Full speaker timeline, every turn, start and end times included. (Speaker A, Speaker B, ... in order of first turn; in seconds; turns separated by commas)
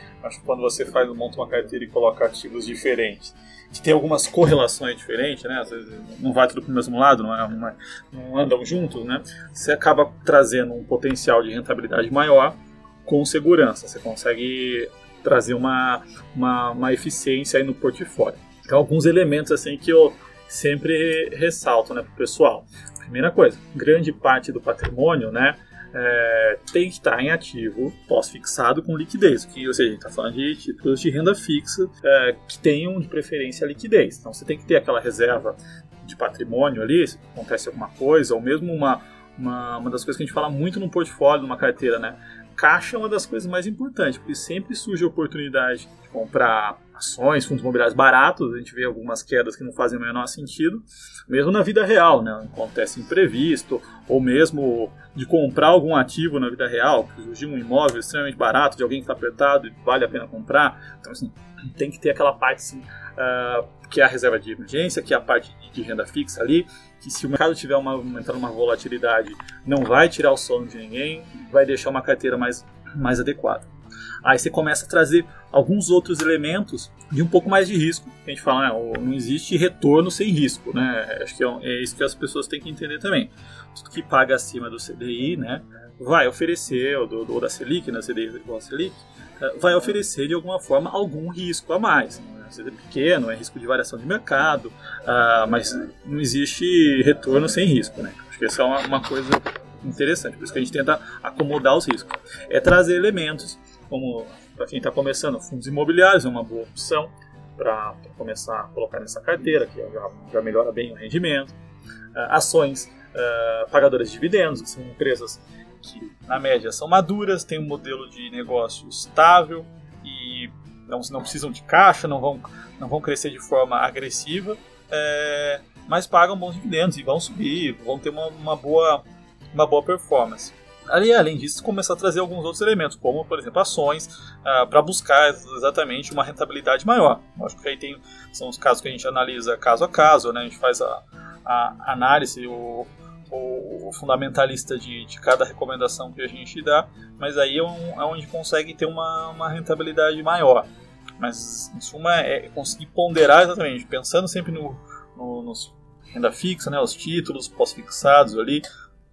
Speaker A: 0.2-73.7, Speaker A: 74.2-111.5, Speaker A: 112.2-158.6